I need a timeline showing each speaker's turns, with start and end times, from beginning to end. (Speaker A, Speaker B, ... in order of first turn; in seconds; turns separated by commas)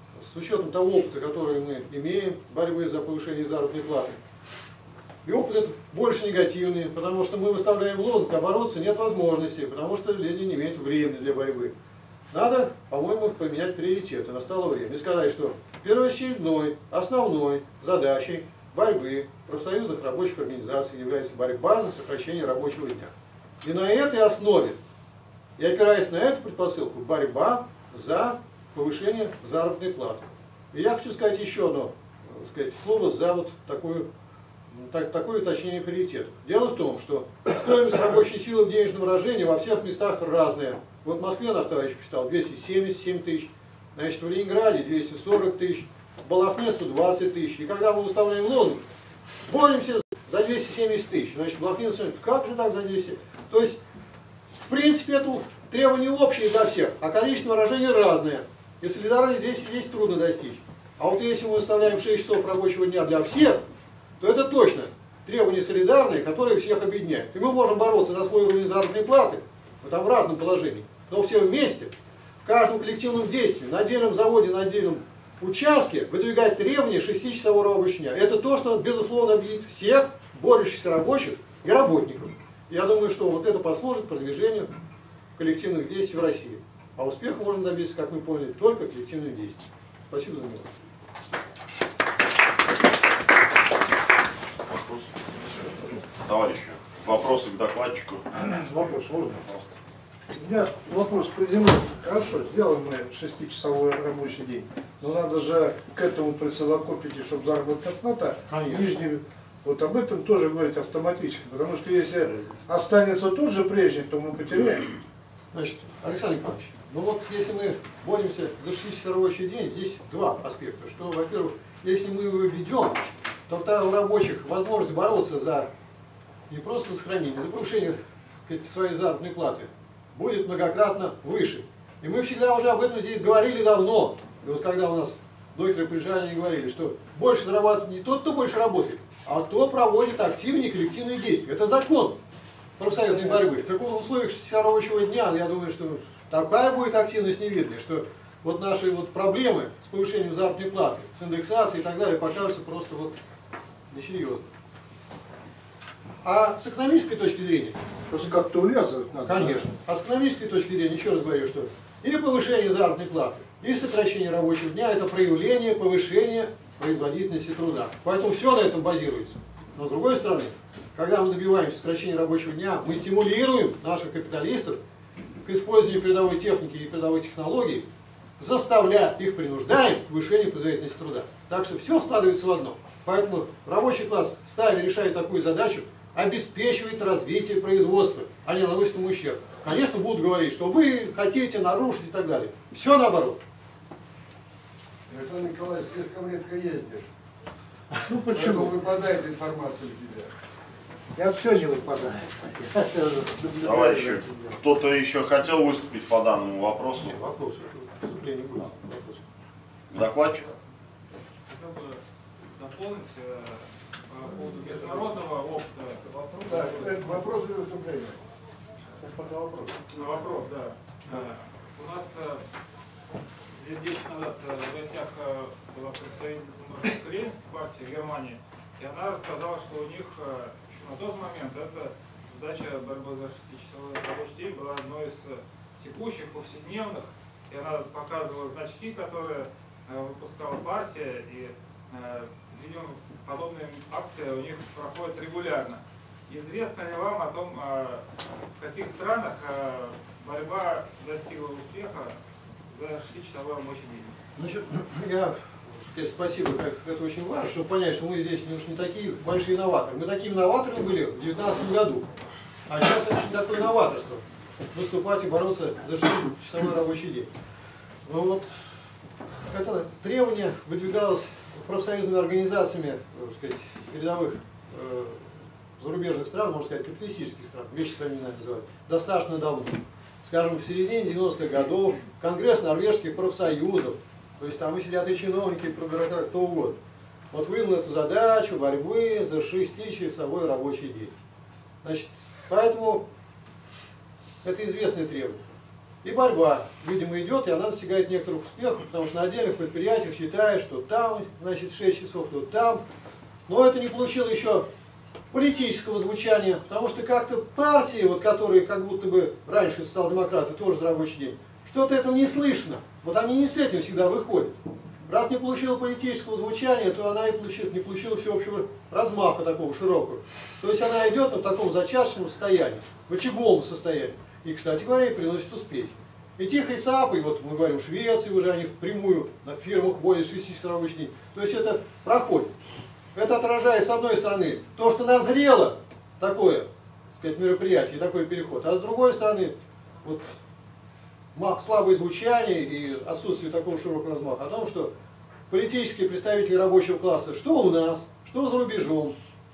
Speaker A: 0.1-4.2, Speaker A: 5.2-11.7, Speaker A: 12.3-24.8, Speaker A: 25.6-34.1, Speaker A: 34.7-48.9, Speaker A: 49.5-53.8, Speaker A: 54.6-63.6, Speaker A: 64.2-71.9, Speaker A: 72.4-84.7, Speaker A: 85.4-90.7, Speaker B: 94.7-95.1, Speaker B: 96.2-98.2, Speaker C: 98.4-99.6, Speaker C: 100.3-114.9, Speaker A: 108.5-109.0, Speaker A: 115.5-125.7, Speaker A: 126.5-142.2, Speaker A: 142.8-153.1, Speaker A: 153.9-154.5, Speaker A: 156.2-157.8, Speaker C: 158.1-159.7, Speaker A: 159.2-174.8, Speaker A: 175.4-177.8, Speaker A: 178.4-193.4, Speaker D: 195.1-197.1, Speaker C: 198.1-198.8, Speaker D: 198.3-200.3, Speaker C: 201.2-204.3, Speaker B: 203.6-207.1, Speaker A: 207.0-209.2, Speaker B: 209.9-210.5, Speaker E: 211.5-212.0, Speaker E: 212.5-216.9, Speaker D: 216.4-218.2, Speaker C: 219.4-219.7, Speaker E: 219.9-222.4, Speaker E: 223.6-248.0, Speaker E: 248.6-252.2, Speaker E: 252.7-254.1, Speaker A: 254.4-262.1, Speaker A: 262.7-264.2, Speaker A: 264.7-267.3, Speaker A: 268.0-268.5, Speaker A: 269.5-286.8, Speaker A: 287.3-291.1, Speaker A: 291.8-293.1, Speaker A: 294.4-295.4, Speaker A: 296.0-302.8, Speaker A: 303.5-304.6, Speaker A: 305.3-314.5, Speaker A: 315.1-332.5, Speaker A: 333.1-336.7, Speaker A: 337.2-340.3, Speaker A: 341.4-344.9, Speaker A: 345.5-349.2